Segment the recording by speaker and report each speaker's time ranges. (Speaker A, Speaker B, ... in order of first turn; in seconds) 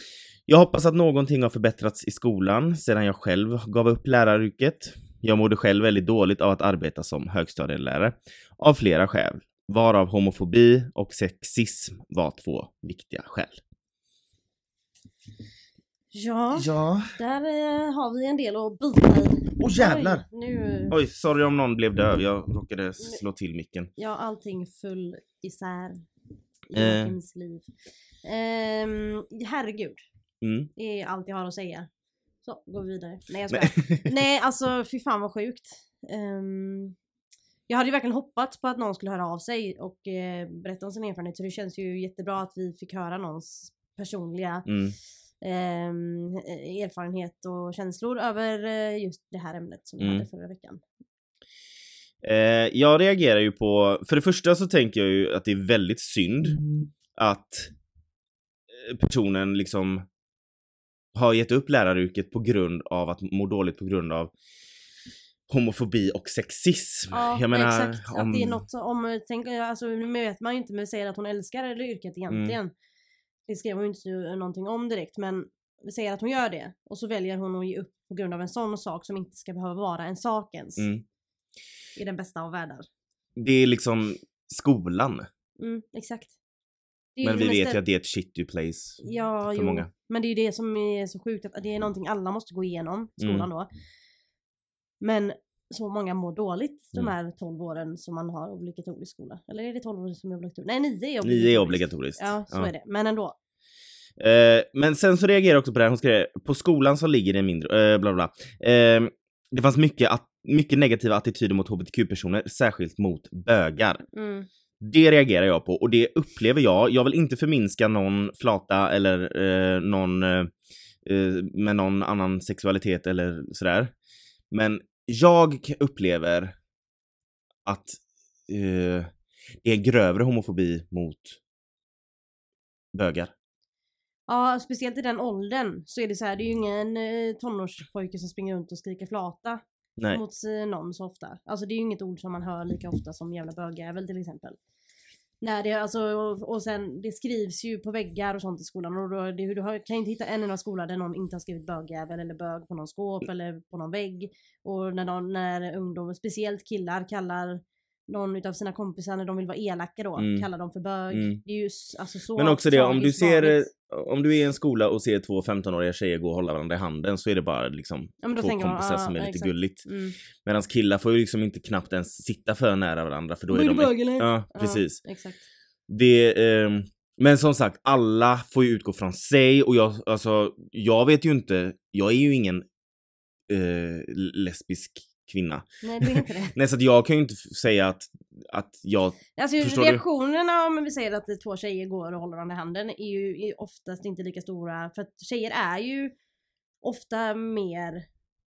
Speaker A: 0.5-13.6, 16.6-17.2, 19.6-20.2, 20.9-23.9, 26.8-27.1, 30.4-30.7, 33.5-34.1, 44.6-44.9, 50.0-50.2, 52.2-57.7, 58.8-60.0, 61.1-64.3, 65.5-68.6, 72.3-72.6, 80.8-81.0, 83.4-85.3, 87.2-89.9, 93.2-93.5, 101.2-102.7, 104.2-114.0, 114.8-120.5, 121.0-123.9, 124.5-126.5, 127.6-129.1, 129.6-131.4, 132.9-133.3, 160.2-160.4, 161.1-161.4, 162.4-169.9, 170.4-175.0, 175.9-182.7, 183.5-190.0
Speaker B: 16.1-20.9, 24.0-26.0, 26.7-27.7, 28.2-30.0, 30.8-31.9, 32.4-37.0, 37.7-44.7, 45.4-50.8, 67.1-72.7, 73.5-80.9, 82.0-82.9, 85.6-86.3, 87.2-87.8, 89.0-93.7, 95.0-103.3, 114.1-114.5, 134.3-144.6, 145.4-163.7, 168.2-170.1, 173.5-175.4, 185.8-186.6, 189.4-196.1, 196.8-198.1